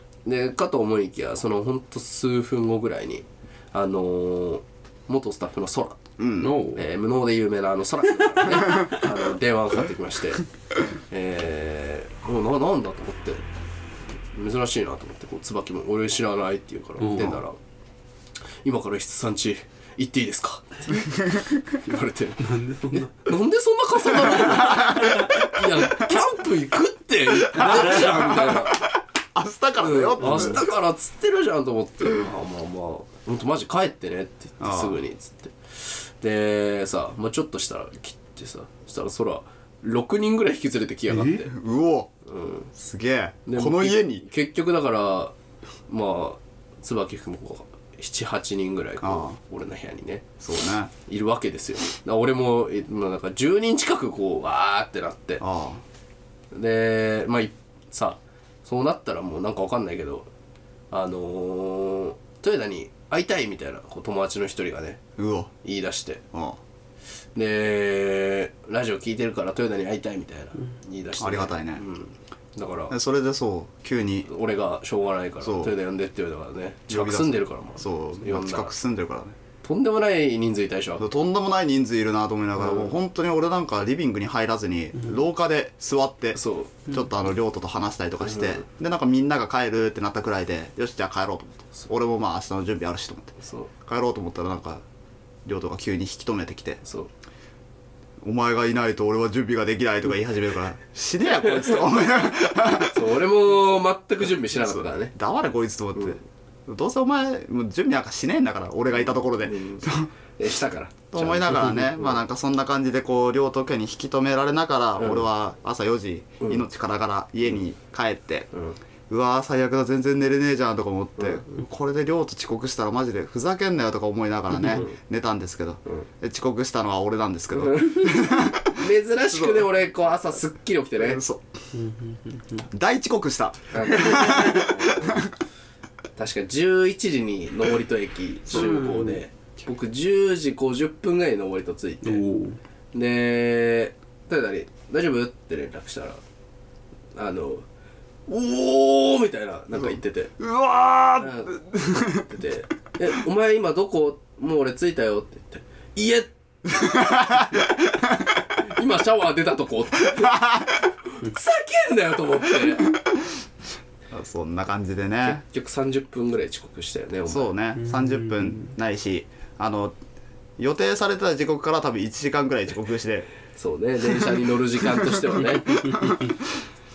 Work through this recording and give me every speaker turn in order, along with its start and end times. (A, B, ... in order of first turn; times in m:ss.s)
0:00.2-0:06.0 A
0:06.2-0:06.5 B
0:06.4-0:06.8 C
0:06.7-0:10.4 A
0:11.1-0:13.4 A
0:14.3-0:17.6 A
0:17.0-0:17.4 C
0:18.6-0:21.2 A
0:21.7-0:22.4 A
0:22.4-0:23.2 C
0:23.2-0:28.8 A
0:24.3-0:26.2 B
0:27.3-0:30.7 B
0:29.8-0:41.5 A
0:30.2-0:30.6 C
0:34.6-0:35.0 B
0:41.1-0:41.4 C
0:41.5-0:42.1 B
0:42.2-0:42.7 A
0:42.7-0:44.2 B
0:43.4-0:45.3 A
0:45.9-0:50.2 A
0:49.0-0:49.4 B
0:50.4-0:50.9 B
0:51.1-0:55.4 A
0:55.4-0:55.8 B
0:56.5-1:00.3 A
1:00.9-1:05.0 A
1:05.2-1:05.5 B
1:05.6-1:06.2 A
1:06.3-1:06.6 B
1:07.4-1:12.9 A
1:11.2-1:11.8 B
1:12.9-1:14.3 B
1:14.2-1:18.7 A
1:15.4-1:15.7 B
1:16.9-1:19.3 B
1:19.6-1:21.0 A
1:21.0-1:34.8 B
1:22.6-1:22.9 A
1:26.3-1:26.8 A
1:28.2-1:28.6 A
1:33.4-1:33.7 A
1:35.4-1:36.8 B
1:36.8-1:37.1 A
1:38.2-1:43.0 B
1:42.8-1:45.1 A
1:44.5-1:50.1 B
1:49.4-1:51.1 A
1:51.1-1:58.5 B
1:51.4-1:51.8 C
1:55.0-1:55.2 A
1:59.1-2:09.7 B
2:01.2-2:01.6 A
2:07.6-2:11.2 A
2:11.0-2:11.4 B
2:11.7-2:12.7 C
2:12.7-2:15.3 B
2:13.7-2:15.2 A
2:13.9-2:14.7 C
2:16.2-2:22.2 A
2:18.5-2:19.2 C
2:22.0-2:22.6 C
2:22.9-2:26.2 A
2:27.1-2:27.6 A
2:28.3-2:30.3 A
2:29.7-2:32.2 B
2:31.2-2:31.6 A
2:32.1-2:36.3 A
2:36.7-2:38.4 B
2:38.7-2:40.4 A
2:40.1-2:40.8 B
2:41.1-2:42.9 A
2:44.1-2:45.4 B
2:45.2-2:47.5 A
2:47.3-2:50.0 B
2:47.8-2:48.7 C
2:50.6-2:53.3 B
2:53.6-2:55.8 A
2:54.9-2:56.6 B
2:55.7-2:56.4 C